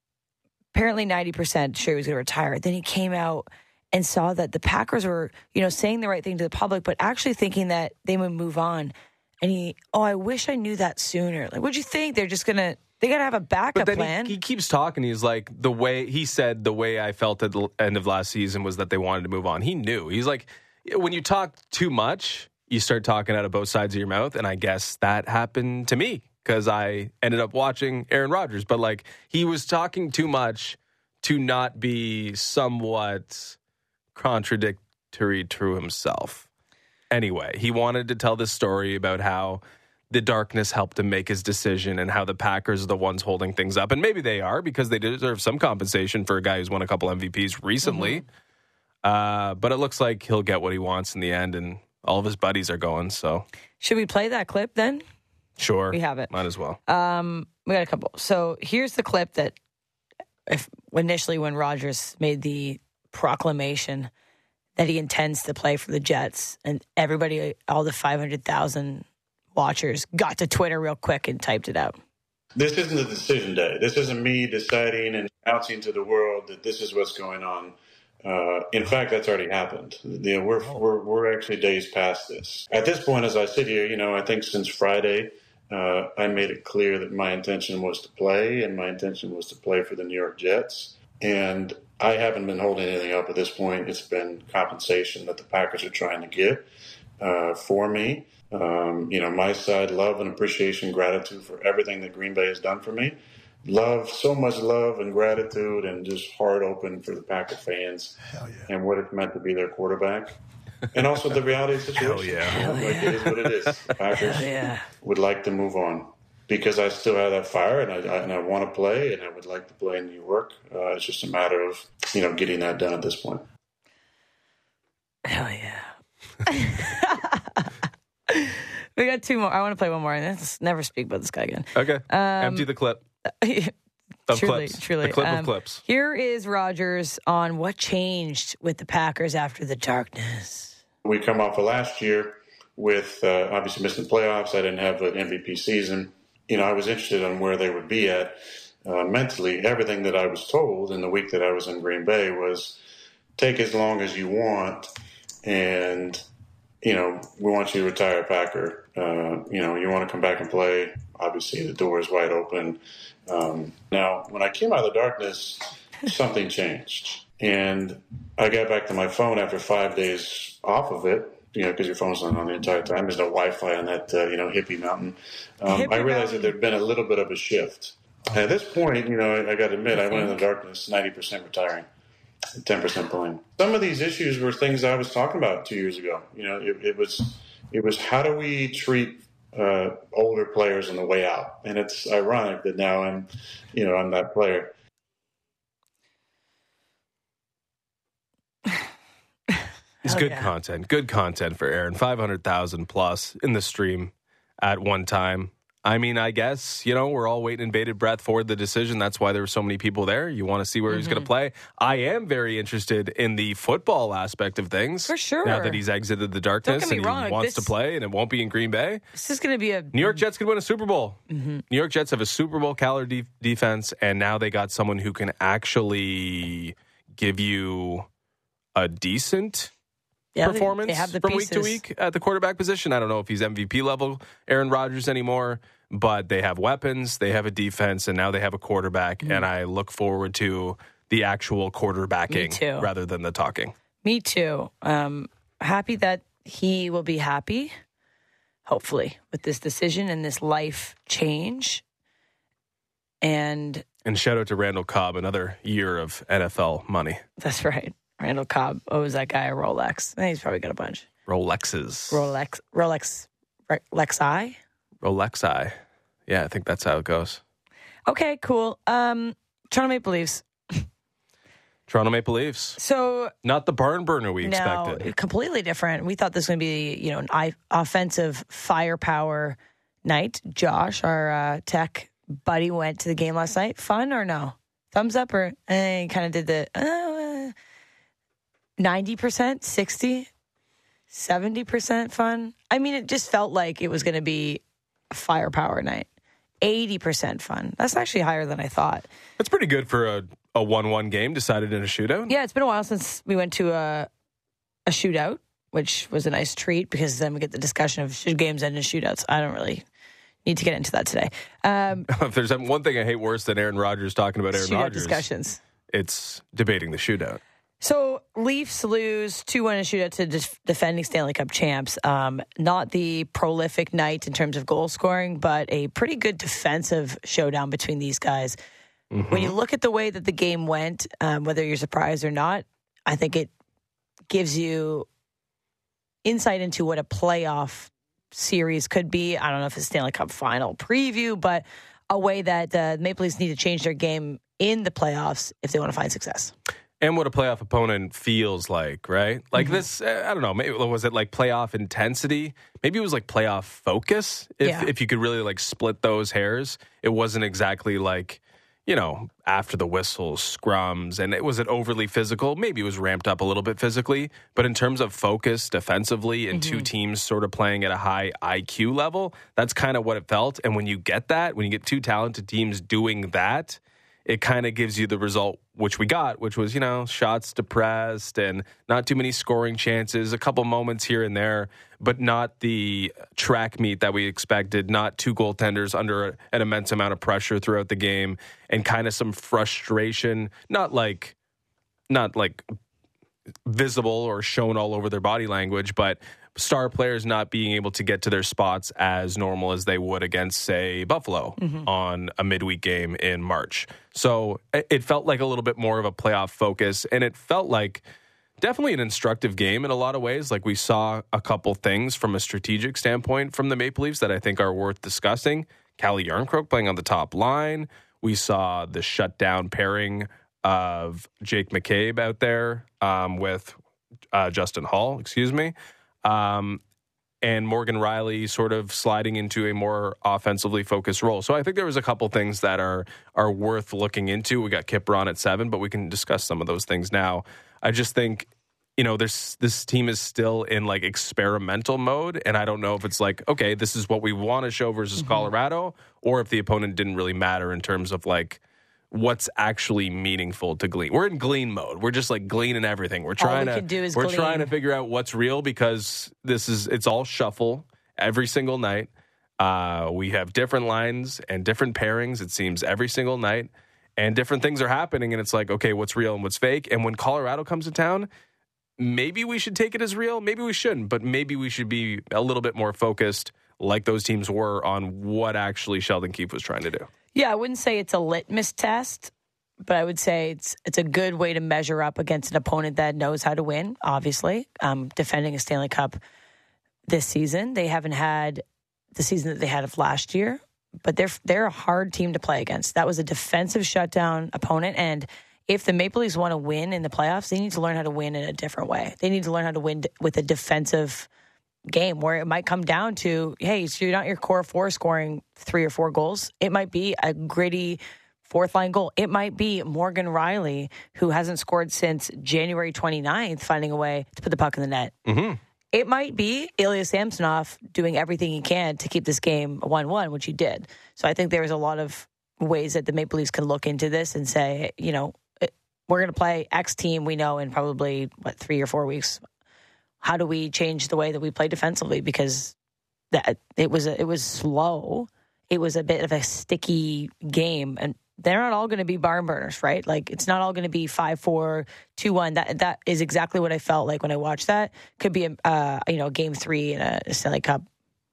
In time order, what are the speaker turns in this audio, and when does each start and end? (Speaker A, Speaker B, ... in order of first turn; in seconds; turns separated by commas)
Speaker A: 0.7-14.3, Speaker B: 13.7-33.6, Speaker B: 34.1-36.5, Speaker B: 37.1-48.2, Speaker A: 47.8-48.2, Speaker B: 49.0-53.4, Speaker A: 53.8-55.0, Speaker B: 55.6-56.8, Speaker A: 55.9-56.3, Speaker A: 56.9-59.5, Speaker A: 60.5-64.1, Speaker A: 64.8-72.0, Speaker C: 72.6-96.6, Speaker C: 97.2-110.4, Speaker C: 110.9-123.4, Speaker B: 112.0-113.9, Speaker A: 112.5-113.2, Speaker A: 114.2-114.8, Speaker A: 125.2-125.9, Speaker A: 126.4-127.7, Speaker A: 128.3-132.7, Speaker B: 131.7-133.0, Speaker A: 133.2-133.7, Speaker B: 134.3-135.8, Speaker A: 134.3-140.8, Speaker C: 141.0-152.8, Speaker C: 153.4-154.9, Speaker C: 155.4-156.2, Speaker C: 156.8-181.8, Speaker A: 175.7-176.5, Speaker A: 180.1-180.3, Speaker C: 182.6-194.7, Speaker A: 199.5-200.5, Speaker B: 200.0-219.0, Speaker A: 210.9-211.3, Speaker A: 215.1-215.8, Speaker A: 216.6-217.7, Speaker A: 219.1-220.2, Speaker B: 219.9-228.1, Speaker A: 221.3-221.6, Speaker B: 228.7-229.7, Speaker A: 230.3-231.8, Speaker B: 230.4-243.7, Speaker A: 242.3-242.9, Speaker A: 244.0-247.7, Speaker A: 248.7-251.8, Speaker A: 253.2-253.8, Speaker B: 254.0-257.2, Speaker A: 257.4-261.1, Speaker B: 261.3-262.3, Speaker A: 262.1-264.6, Speaker B: 265.0-265.7, Speaker B: 266.3-267.4, Speaker A: 268.1-270.9, Speaker B: 271.9-272.8, Speaker A: 272.8-273.3, Speaker B: 273.4-275.1, Speaker A: 274.4-287.5, Speaker A: 288.8-290.3, Speaker A: 291.1-296.1, Speaker A: 296.6-299.1, Speaker B: 299.4-302.3, Speaker A: 302.3-304.1, Speaker A: 304.9-309.8, Speaker A: 310.4-312.1, Speaker B: 312.1-315.2, Speaker A: 314.5-315.6, Speaker B: 315.9-317.4, Speaker A: 317.8-328.6, Speaker B: 329.1-329.5, Speaker A: 329.3-333.5, Speaker A: 334.3-335.1, Speaker A: 336.2-346.5, Speaker B: 347.0-391.3, Speaker A: 349.6-349.8, Speaker A: 354.6-354.9, Speaker A: 366.5-366.9, Speaker B: 392.1-392.7, Speaker B: 393.6-408.0, Speaker A: 401.6-401.9, Speaker B: 408.6-423.8, Speaker B: 424.3-426.8, Speaker B: 427.4-448.6, Speaker A: 445.2-445.5, Speaker B: 449.1-468.3, Speaker A: 453.4-454.7, Speaker B: 469.0-477.1, Speaker A: 477.3-479.3, Speaker A: 479.8-486.2, Speaker A: 487.1-488.6, Speaker A: 489.1-501.3, Speaker A: 501.9-515.1, Speaker B: 515.2-515.6, Speaker A: 515.9-529.4, Speaker A: 530.2-532.7, Speaker A: 533.3-547.8